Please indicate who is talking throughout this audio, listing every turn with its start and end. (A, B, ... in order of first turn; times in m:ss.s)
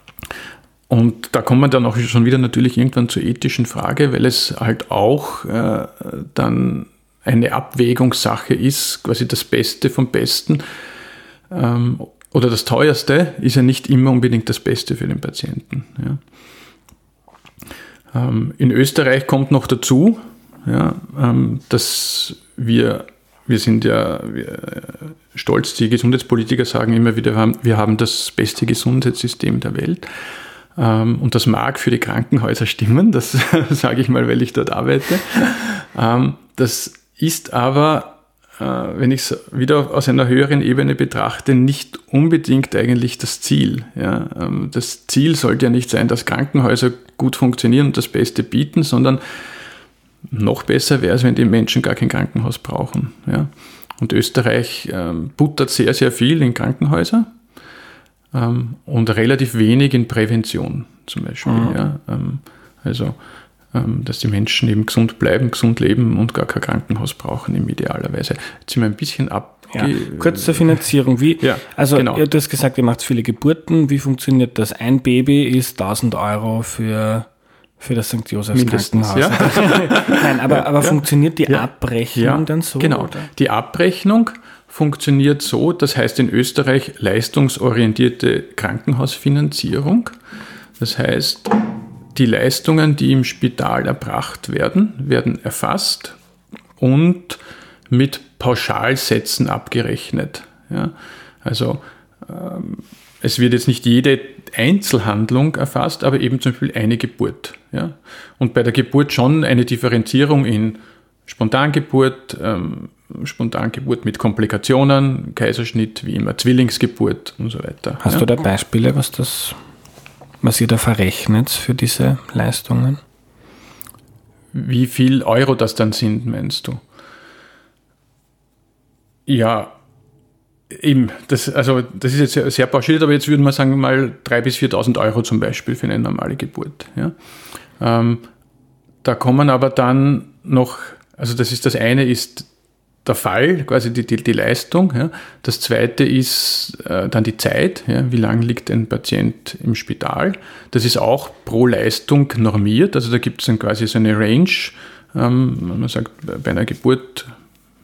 0:00.9-0:10.6 A
0:11.5-0:16.2 A
0:18.1-0:30.0 A
0:30.7-0:49.2 A
0:50.3-0:57.3 A
0:58.3-1:03.2 A
1:01.4-1:01.8 B
1:03.7-1:10.8 A
1:09.7-1:17.3 B
1:11.4-1:12.2 A
1:17.8-1:23.3 B
1:18.5-1:30.1 A
1:30.8-1:36.2 A
1:36.8-1:58.2 A
1:58.0-1:59.6 B
2:00.4-2:03.0 B
2:04.5-2:06.8 A
2:09.2-2:09.7 A
2:10.7-2:17.1 A
2:17.8-2:18.2 A
2:19.0-2:22.5 A
2:23.0-2:37.3 A